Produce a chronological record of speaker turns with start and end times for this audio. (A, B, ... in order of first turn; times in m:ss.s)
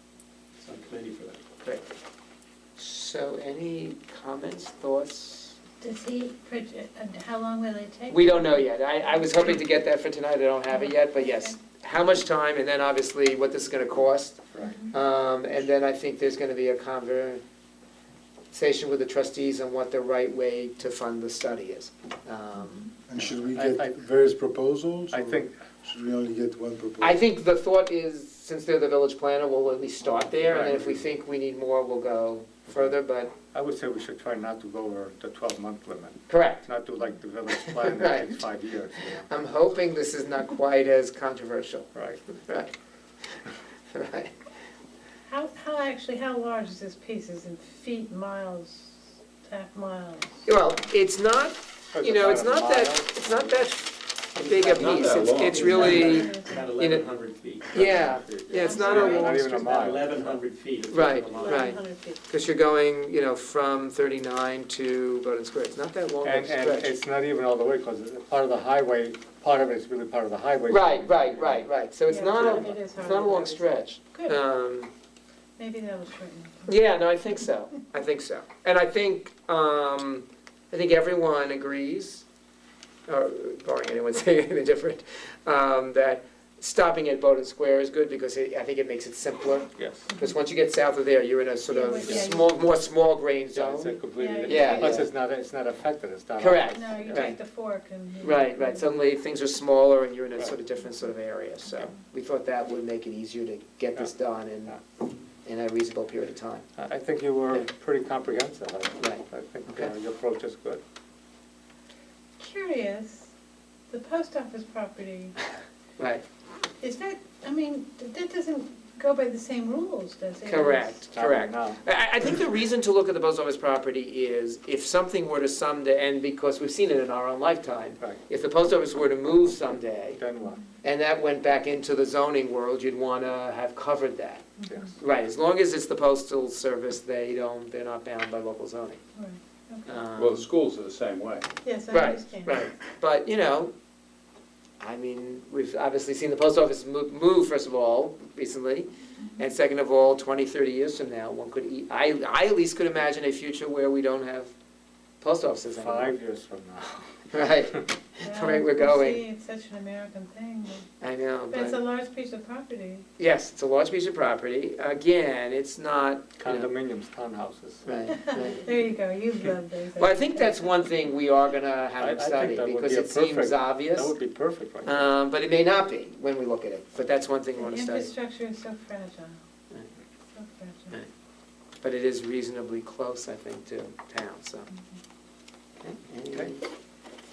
0:00.6-0:01.4 A
0:02.8-0:05.6 B
0:05.8-0:09.6 C
0:08.1-0:17.4 B
0:10.7-0:11.6 C
0:14.5-0:14.8 D
0:14.6-0:14.9 C
0:18.5-0:22.9 B
0:23.1-0:25.3 E
0:23.2-0:24.0 D
0:25.1-0:25.6 D
0:25.8-0:27.2 E
0:27.0-0:33.3 B
0:30.0-0:31.1 D
0:33.5-0:39.2 D
0:36.3-0:36.7 B
0:37.9-0:38.3 B
0:39.0-0:41.9 B
0:42.0-0:42.3 D
0:42.4-0:42.7 B
0:43.9-0:44.3 B
0:45.3-0:50.4 C
0:50.4-0:56.3 B
0:52.0-0:53.7 D
0:54.4-0:57.8 A
0:54.7-0:56.2 F
0:56.0-0:56.5 C
0:56.8-0:57.0 B
0:57.7-0:59.5 B
0:57.7-1:00.4 D
0:58.6-0:59.3 C
0:58.7-1:01.8 A
1:00.9-1:06.9 B
1:01.4-1:02.2 C
1:06.2-1:11.7 D
1:10.7-1:14.9 B
1:12.1-1:14.4 C
1:12.2-1:12.8 D
1:15.6-1:16.8 C
1:16.7-1:22.2 B
1:23.1-1:33.9 B
1:29.8-1:30.1 D
1:31.7-1:32.5 C
1:32.0-1:32.3 D
1:33.5-1:37.3 D
1:34.2-1:35.0 C
1:34.4-1:35.1 B
1:36.4-1:37.4 B
1:36.7-1:38.8 C
1:38.2-1:44.8 B
1:45.4-1:46.7 B
1:46.8-1:50.8 D
1:49.0-1:49.9 B
1:52.4-1:53.3 C
1:53.9-1:55.4 C
1:56.0-1:56.2 B
1:56.8-2:01.0 C
2:00.5-2:10.2 B
2:01.1-2:01.8 D
2:10.2-2:10.6 D
2:10.8-2:14.4 B
2:14.6-2:14.9 C
2:15.0-2:19.0 B
2:19.2-2:20.0 C
2:19.8-2:20.5 B
2:20.1-2:21.5 F
2:21.6-2:22.7 C
2:21.9-2:23.7 B
2:24.8-2:34.5 B
2:35.2-2:36.1 B
2:35.7-2:37.8 D
2:37.3-2:39.2 B
2:38.2-2:40.9 C
2:41.0-2:41.8 B
2:41.5-2:43.1 C
2:43.2-2:46.7 B
2:46.4-2:48.5 D
2:47.8-2:48.8 B
2:48.1-2:50.6 C
2:50.0-2:54.1 B
2:52.0-2:55.1 D
2:54.8-2:58.1 B
2:57.6-2:59.4 C
3:00.3-3:01.0 C
3:01.8-3:04.7 B
3:05.8-3:06.6 B
3:06.3-3:06.6 D